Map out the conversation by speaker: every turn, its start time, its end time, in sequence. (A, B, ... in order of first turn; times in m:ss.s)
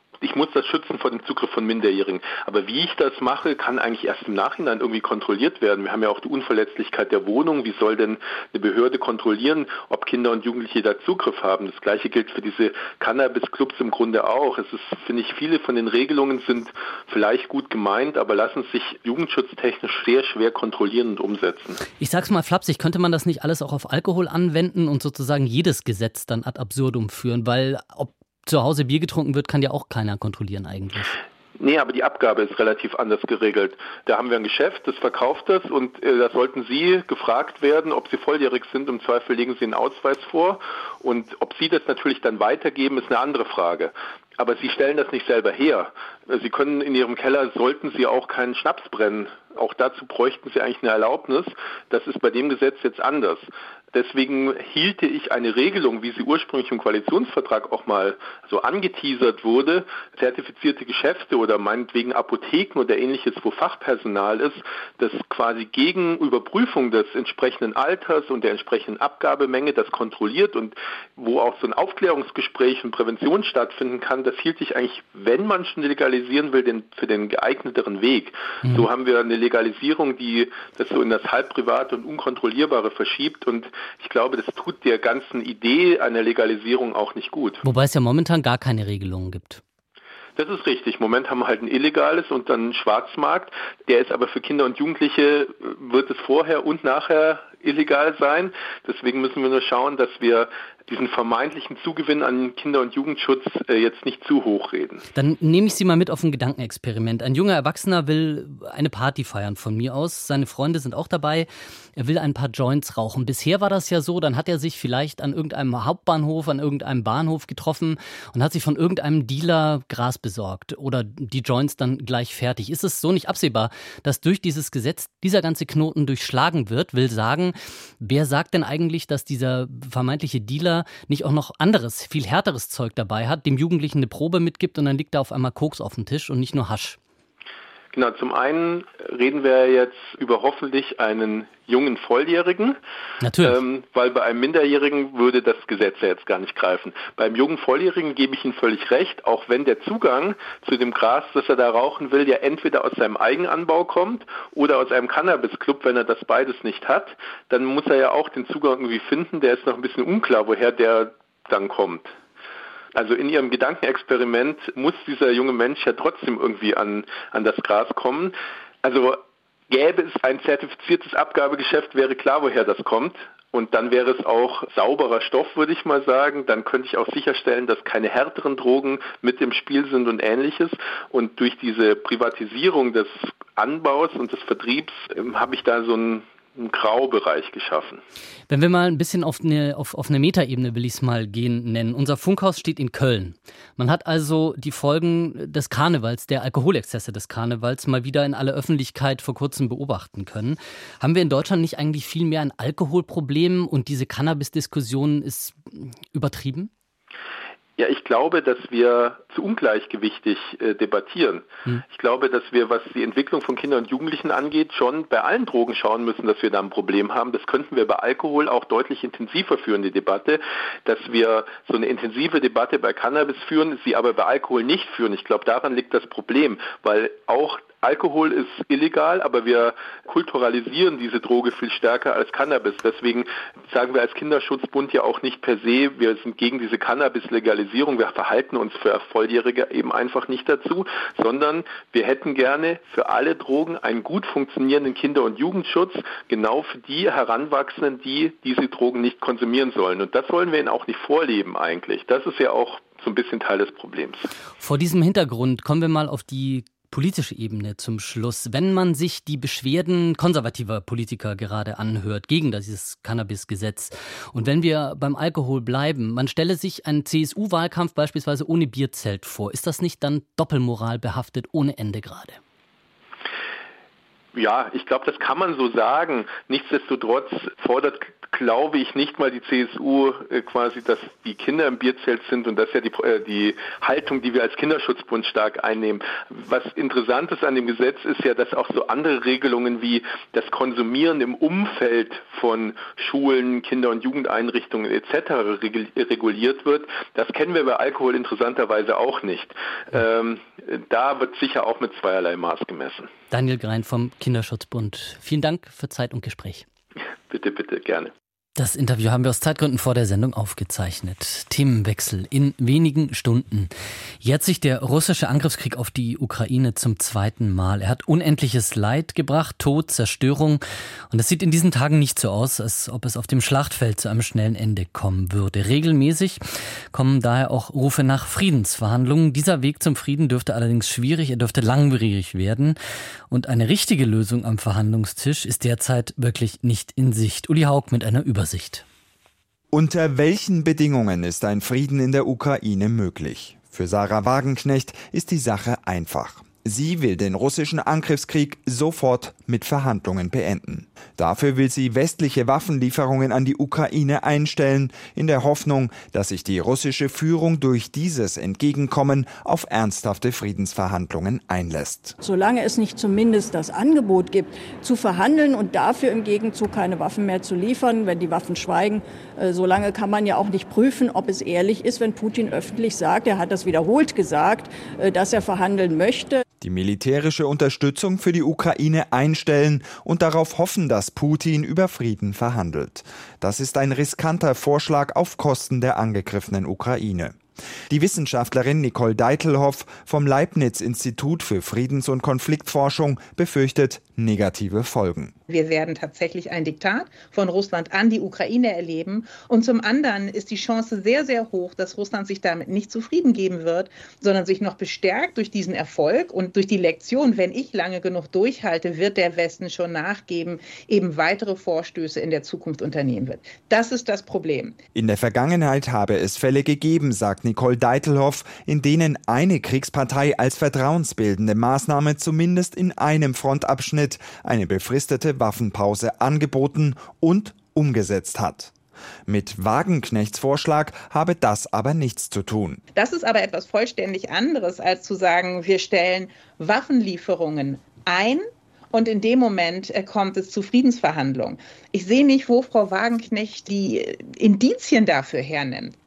0:00.2-0:21.8 A
0:22.0-0:31.2 B
0:31.6-1:27.6 A
1:27.6-1:29.6 B
1:30.4-1:45.0 A
1:45.1-2:17.0 B
2:17.9-2:22.8 A
2:23.2-2:23.6 B
2:23.4-2:42.1 A
2:42.9-3:08.0 A
3:08.5-3:26.7 B
3:27.8-4:14.3 A
4:14.6-4:32.4 B
4:34.3-5:03.1 A
5:03.3-5:06.6 B
5:07.3-5:08.1 A
5:08.6-5:13.7 B
5:14.2-5:26.4 B
5:26.9-5:32.7 B
5:33.3-5:38.8 B
5:39.7-6:02.1 C
6:02.2-6:16.4 D
6:16.6-6:27.4 C
6:27.9-6:35.3 C
6:35.5-6:54.8 E
6:54.9-7:08.7 C
7:09.3-7:12.8 C
7:12.9-7:26.0 E